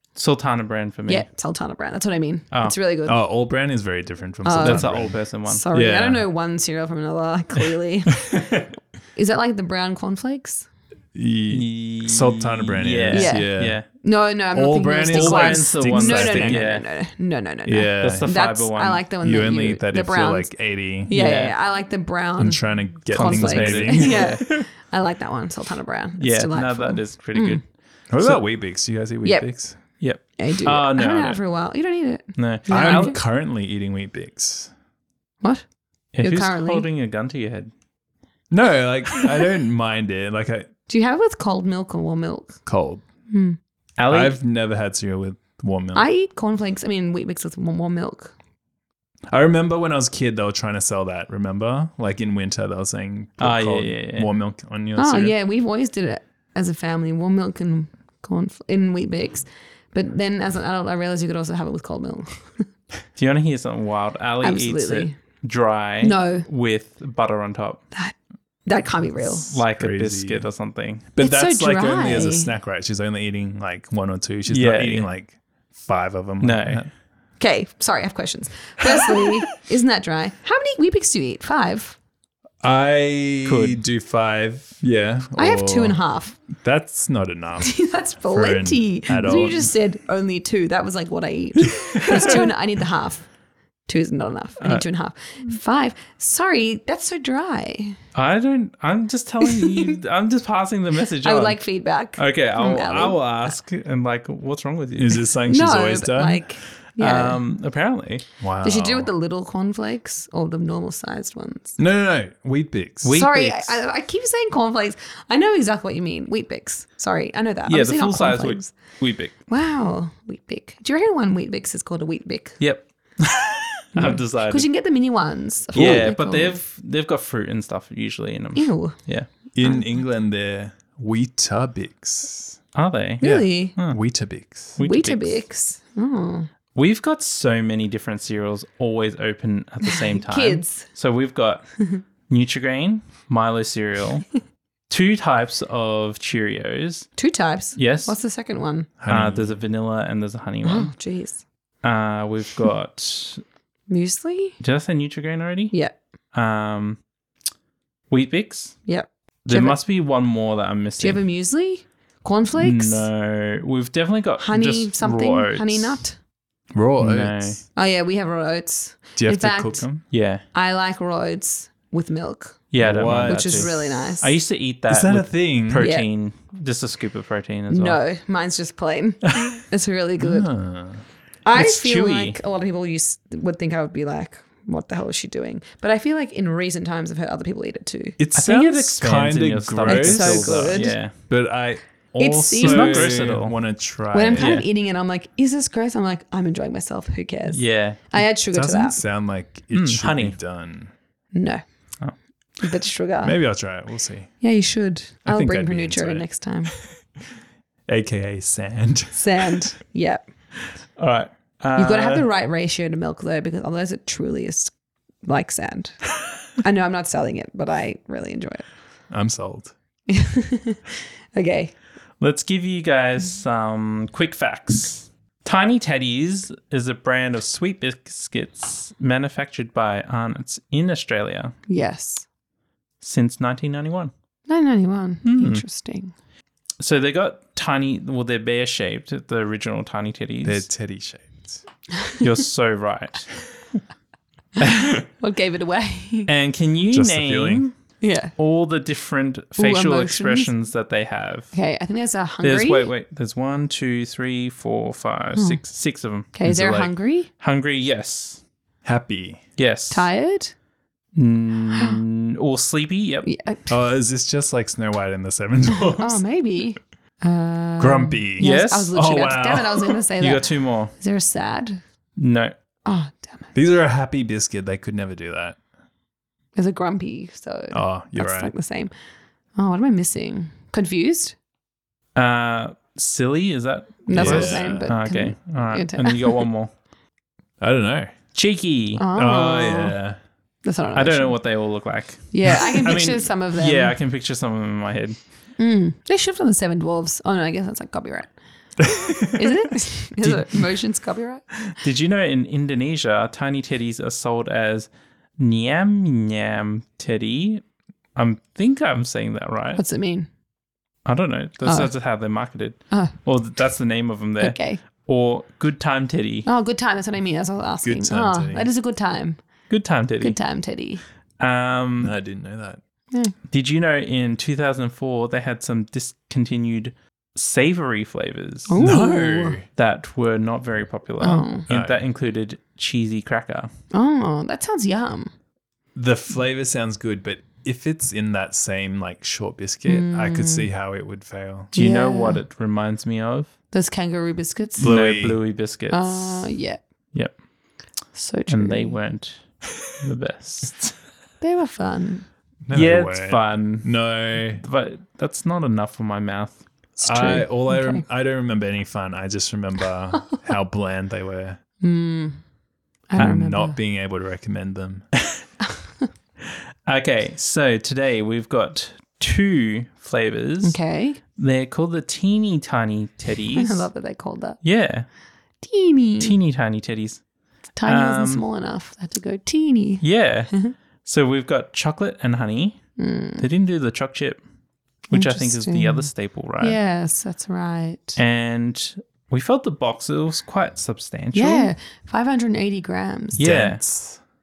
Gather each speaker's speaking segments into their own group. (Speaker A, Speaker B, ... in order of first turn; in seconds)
Speaker A: 0.1-1.3, 4.6-5.7, 11.5-13.8, 15.1-16.9, 18.0-19.1, 21.1-21.6, 23.1-24.6, 26.2-27.7, 30.0-31.4, 32.4-33.1, 36.1-37.7, 44.0-44.4, 53.4-54.3, 63.2-67.8, 69.4-71.1, 74.5-75.1, 76.4-76.9, 83.5-83.8, 98.1-101.6, 102.2-105.2, 107.0-108.3, 113.0-113.8, 117.7-119.3, 122.6-124.7, 125.8-129.3, 132.8-134.0, 134.8-135.5, 136.8-144.3, 144.9-147.1, 147.8-148.2, 149.1-150.9, 151.8-153.4, 154.6-155.7, 156.3-157.0, 158.1-158.8, 159.5-161.2, 162.6-166.0, 167.0-167.6, 170.0-170.4, 172.7-178.0, 181.5-182.4, 188.3-191.1, 192.6-193.6, 194.4-194.7, 197.5-198.0, 199.7-200.4, 211.0-212.3, 222.2-231.6, 233.0-234.1, 235.2-235.6, 236.8-240.7, 242.2-243.4, 246.3-247.8, 248.4-251.5, 252.4-256.3, 257.4-258.4, 259.6-260.1, 261.1-263.3, 268.4-268.9, 270.2-270.9, 272.2-272.5, 282.1-286.7, 288.3-289.1, 290.9-295.2, 300.2-300.6, 301.7-307.6, 308.2-309.8, 311.1-316.5, 319.7-320.4, 321.4-322.1, 323.5-328.8, 329.8-333.7, 341.7-343.5, 344.8-346.5, 348.5-351.0, 352.7-356.6, 366.9-370.8, 371.4-373.9, 374.6-375.1, 376.2-377.2, 377.9-378.4, 380.0-382.8, 383.4-384.4, 385.1-386.8, 388.2-391.7, 393.4-393.8
Speaker B: 1.1-3.2, 4.4-8.5, 9.2-10.7, 13.1-20.5, 21.1-27.6, 29.2-29.5, 30.4-33.2, 36.2-36.9, 40.9-42.6, 43.3-43.6, 45.9-48.3, 55.0-62.7, 64.4-65.2, 66.0-66.5, 67.9-69.6, 71.2-72.5, 77.4-82.0, 85.3-86.4, 87.6-93.3, 93.9-98.0, 99.5-99.9, 101.2-103.5, 105.5-107.4, 108.6-111.8, 113.2-118.7, 119.5-122.6, 124.0-126.6, 128.6-129.0, 133.2-133.8, 134.8-136.5, 139.8-140.9, 147.2-148.9, 150.6-151.4, 153.9-154.6, 155.7-156.0, 158.9-159.8, 161.0-163.1, 164.4-166.2, 167.8-169.9, 170.5-174.4, 175.8-176.1, 177.7-180.5, 181.4-188.2, 189.8-190.9, 192.2-193.2, 194.1-199.0, 201.3-201.6, 202.6-203.3, 204.4-206.7, 209.1-210.3, 211.8-214.7, 215.2-216.1, 216.6-218.7, 220.1-221.8, 231.7-232.3, 234.5-236.1, 245.1-246.3, 248.0-248.3, 249.6-250.5, 251.5-252.9, 255.4-255.6, 256.3-257.3, 259.9-260.5, 263.2-263.7, 265.8-271.8, 272.9-273.5, 276.6-278.9, 279.6-281.4, 284.1-286.4, 289.0-290.0, 290.6-291.4, 292.3-294.0, 295.6-298.3, 299.2-301.5, 309.8-310.3, 311.6-311.9, 312.9-313.2, 314.4-314.8, 316.4-319.4, 320.2-321.0, 328.7-329.6, 331.2-331.7, 333.9-335.3, 339.9-340.7, 341.7-342.4, 343.7-344.9, 345.9-346.8, 348.1-349.0, 351.4-352.3, 357.0-358.0, 361.8-362.4, 363.1-363.8, 370.6-371.2, 373.6-374.6, 375.6-376.4, 377.8-380.7, 383.0-383.5, 385.1-386.1, 386.6-388.2, 391.3-393.4
Speaker C: 3.1-6.2, 11.2-13.8, 14.5-16.7, 17.7-18.3, 19.2-21.1, 22.4-24.4, 28.1-29.8, 32.7-34.7, 38.5-40.7, 42.7-43.0, 44.1-46.0, 49.3-55.4, 69.7-70.5, 71.1-76.9, 82.6-89.7, 91.7-92.4, 105.0-106.4, 108.4-109.1, 111.8-113.2, 125.8-126.1, 129.6-132.6, 133.2-134.8, 149.0-149.6, 166.7-167.6, 169.2-170.0, 172.8-173.8, 174.9-175.9, 180.2-181.0, 188.2-194.6, 198.5-200.9, 203.2-204.3, 205.2-206.2, 207.9-209.6, 219.1-219.8, 240.4-241.6, 246.9-247.7, 256.4-256.9, 258.8-259.4, 263.7-266.2, 267.8-270.0, 273.5-275.6, 277.7-278.5, 284.1-284.9, 287.6-288.1, 289.1-290.2, 298.8-299.5, 317.8-318.7, 322.0-322.8, 328.8-329.7, 331.7-332.0, 335.9-341.7, 344.8-345.4, 352.7-354.6, 357.0-361.6, 363.2-365.1, 393.4-394.2